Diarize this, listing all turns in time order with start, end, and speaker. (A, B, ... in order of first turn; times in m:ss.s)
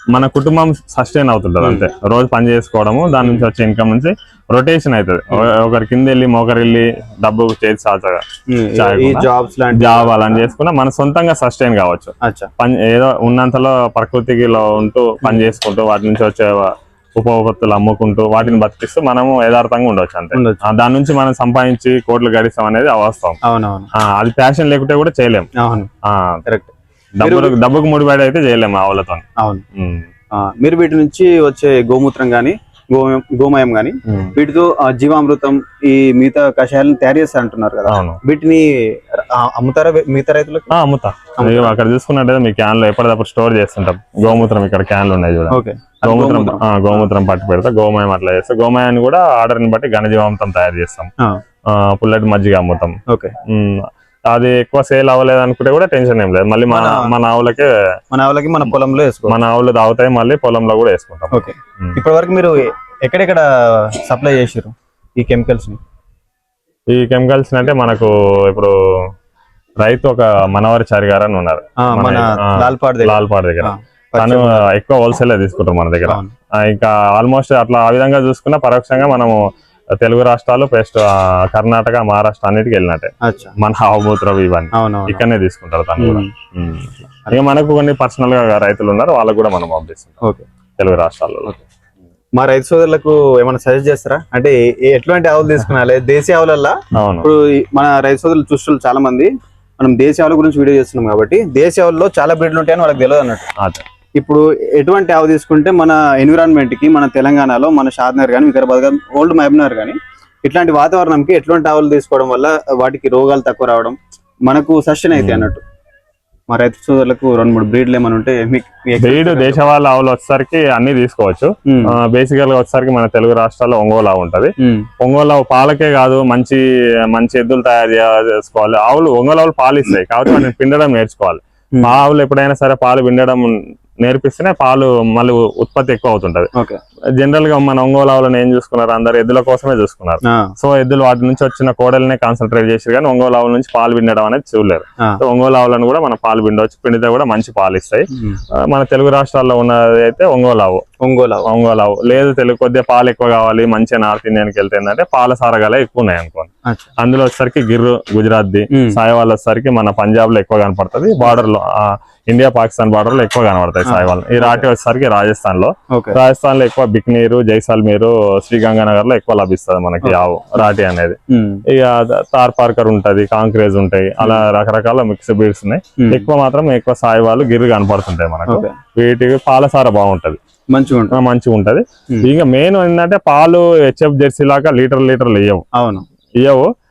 0:00.1-0:08.2 A
0:01.6-0:01.9 B
0:08.5-0:10.5 B
0:08.8-0:23.4 A
0:12.2-0:12.5 B
0:15.2-0:15.5 B
0:20.3-0:20.6 B
0:23.4-0:23.9 B
0:24.0-0:25.5 A
0:25.6-0:25.9 B
0:26.0-0:26.4 A
0:26.5-0:27.6 B
0:27.2-0:30.1 A
0:29.4-0:29.6 B
0:30.3-0:40.7 B
0:34.1-0:34.3 A
0:37.9-0:38.2 A
0:40.7-0:51.1 A
0:41.4-0:41.8 B
0:45.5-0:47.1 B
0:51.7-0:53.0 A
0:53.1-0:53.3 B
0:53.5-0:57.7 A
0:56.7-0:57.1 B
0:58.1-0:59.4 B
0:59.3-1:02.0 A
1:01.3-1:05.8 B
1:06.9-1:08.7 A
1:09.8-1:19.4 A
1:11.8-1:14.7 B
1:16.1-1:16.3 B
1:20.0-1:30.2 A
1:23.2-1:23.5 B
1:24.7-1:25.2 B
1:26.0-1:26.3 B
1:30.2-1:30.5 B
1:30.8-1:31.6 A
1:32.4-1:43.5 B
1:37.0-1:37.3 A
1:44.2-1:55.6 B
1:55.1-1:55.5 A
1:56.5-1:59.7 B
1:59.0-2:16.5 A
2:01.7-2:02.0 B
2:04.6-2:04.9 B
2:17.2-2:30.8 A
2:20.2-2:20.5 B
2:28.1-2:28.4 B
2:31.0-2:31.5 B
2:31.4-2:36.5 A
2:37.0-2:51.2 A
2:38.7-2:39.0 B
2:43.8-2:44.7 B
2:45.9-2:46.2 B
2:51.3-2:51.6 B
2:51.7-3:00.4 A
2:56.0-2:56.3 B
2:58.5-2:58.8 B
3:00.7-3:01.2 B
3:01.1-3:05.7 A
3:05.8-3:06.0 B
3:06.4-3:06.7 A